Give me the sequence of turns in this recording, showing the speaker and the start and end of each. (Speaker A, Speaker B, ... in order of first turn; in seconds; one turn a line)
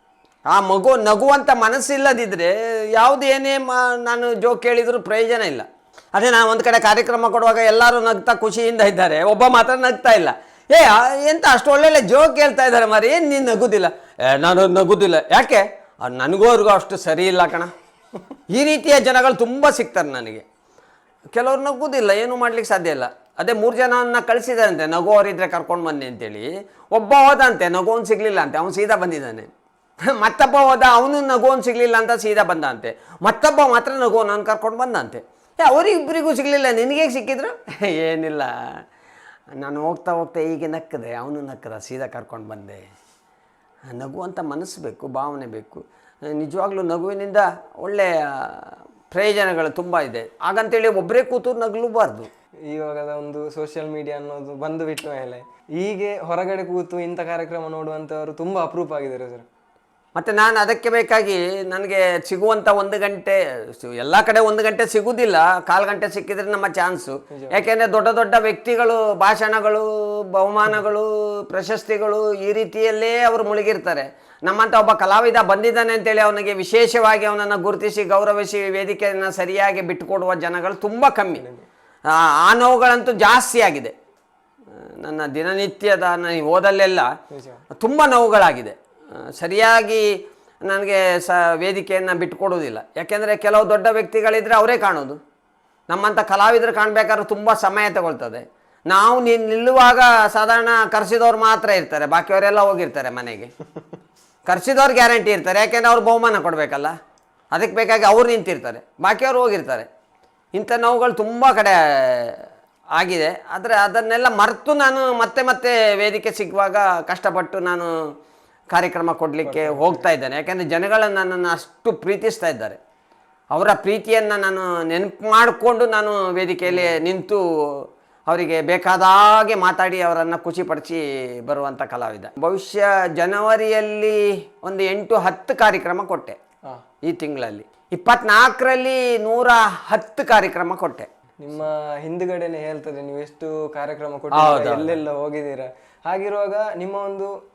Speaker A: 0.5-17.7
Speaker A: 18.5-20.4
Speaker A: 21.3-29.5
Speaker A: 30.1-38.8
Speaker A: 39.6-42.9
Speaker A: 43.9-52.3
Speaker B: 52.7-59.5
Speaker A: 60.1-81.4
Speaker B: 81.4-81.7
Speaker A: 82.0-83.9
Speaker A: 84.8-87.1
Speaker B: 87.3-87.6
Speaker A: 87.8-95.2
Speaker A: 95.9-103.5
Speaker A: 104.5-106.9
Speaker A: 107.5-109.9
Speaker A: 110.5-112.4
Speaker A: 113.0-117.9
Speaker A: 118.7-122.8
Speaker B: 119.4-120.0
Speaker A: 123.5-136.4
Speaker B: 126.7-127.0
Speaker A: 137.1-141.1
Speaker B: 141.4-147.3
Speaker A: 144.3-145.0